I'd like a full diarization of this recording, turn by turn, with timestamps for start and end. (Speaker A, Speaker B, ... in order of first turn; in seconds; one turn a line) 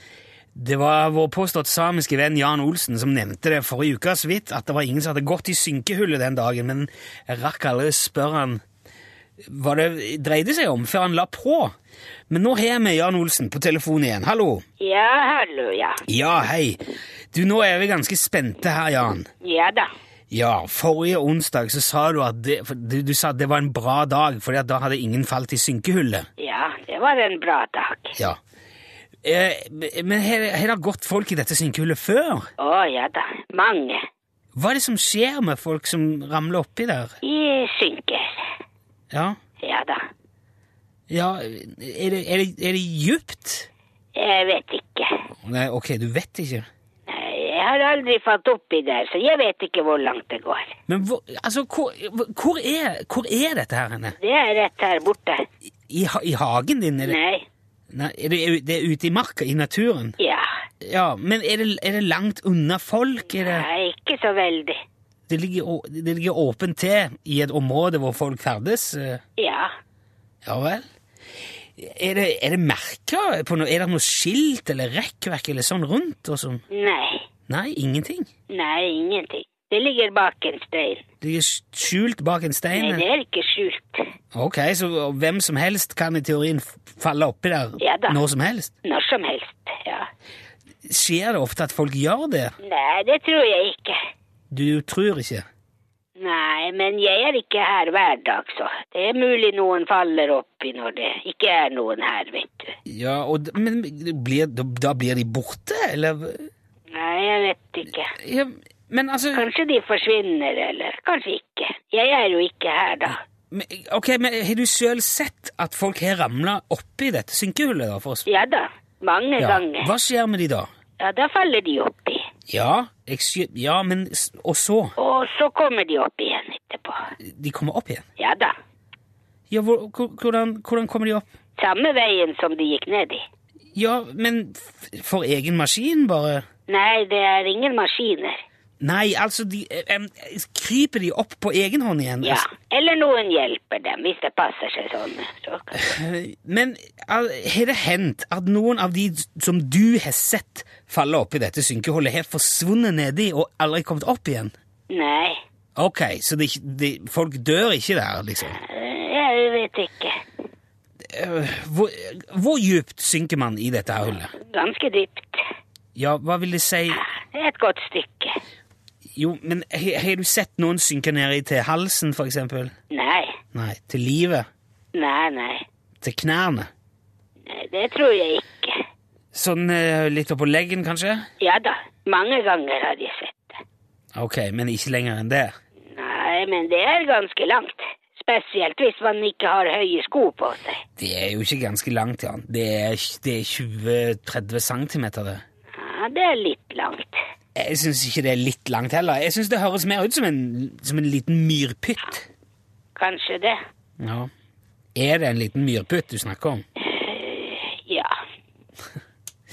Speaker A: 0.6-8.6
Speaker A: 9.5-11.7
Speaker A: 12.3-14.6
Speaker B: 14.8-16.0
Speaker A: 16.1-16.8
Speaker A: 17.3-19.3
Speaker B: 19.4-19.9
Speaker A: 20.3-26.3
Speaker B: 26.4-28.2
Speaker A: 29.2-32.5
Speaker B: 32.6-34.0
Speaker A: 34.6-37.1
Speaker B: 37.2-38.5
Speaker A: 39.1-39.4
Speaker B: 39.6-40.0
Speaker A: 41.1-43.7
Speaker B: 44.2-45.1
Speaker A: 45.5-46.7
Speaker B: 47.1-50.8
Speaker A: 50.9-54.2
Speaker B: 54.2-55.4
Speaker A: 55.9-57.2
Speaker B: 57.0-57.5
Speaker A: 57.9-60.2
Speaker B: 60.2-60.5
Speaker A: 60.8-63.7
Speaker B: 63.4-64.8
Speaker A: 65.3-69.2
Speaker B: 69.4-69.7
Speaker A: 70.5-70.8
Speaker A: 71.8-76.6
Speaker B: 76.7-77.3
Speaker A: 77.5-78.3
Speaker B: 78.5-81.0
Speaker A: 81.2-83.0
Speaker B: 82.7-84.0
Speaker A: 84.3-88.7
Speaker B: 87.8-88.2
Speaker B: 88.8-90.1
Speaker A: 90.8-92.5
Speaker B: 92.6-94.0
Speaker A: 94.5-95.5
Speaker B: 96.2-102.7
Speaker A: 102.9-106.5
Speaker B: 106.9-108.1
Speaker A: 108.1-109.5
Speaker B: 109.3-113.2
Speaker A: 113.5-118.3
Speaker B: 118.3-119.9
Speaker A: 119.4-120.7
Speaker B: 121.0-122.2
Speaker A: 122.5-125.0
Speaker B: 125.0-127.0
Speaker A: 127.2-128.0
Speaker B: 128.2-128.5
Speaker A: 129.5-131.3
Speaker B: 131.6-133.2
Speaker A: 133.8-136.5
Speaker B: 136.7-138.4
Speaker A: 138.8-142.5
Speaker B: 142.2-145.8
Speaker A: 145.8-154.5
Speaker B: 154.9-155.4
Speaker A: 155.8-158.6
Speaker B: 158.5-160.3
Speaker A: 161.1-164.3
Speaker B: 164.4-165.4
Speaker A: 166.0-167.0
Speaker B: 166.9-168.4
Speaker A: 169.2-172.7
Speaker B: 172.9-173.4
Speaker A: 173.5-174.5
Speaker B: 174.9-175.7
Speaker A: 176.0-176.7
Speaker B: 177.5-178.8
Speaker A: 179.3-181.3
Speaker B: 181.4-183.6
Speaker A: 184.2-185.5
Speaker B: 185.9-190.8
Speaker A: 191.0-195.4
Speaker B: 195.8-197.2
Speaker A: 197.6-202.3
Speaker B: 203.0-203.6
Speaker A: 204.0-204.3
Speaker A: 205.0-206.6
Speaker B: 206.8-208.1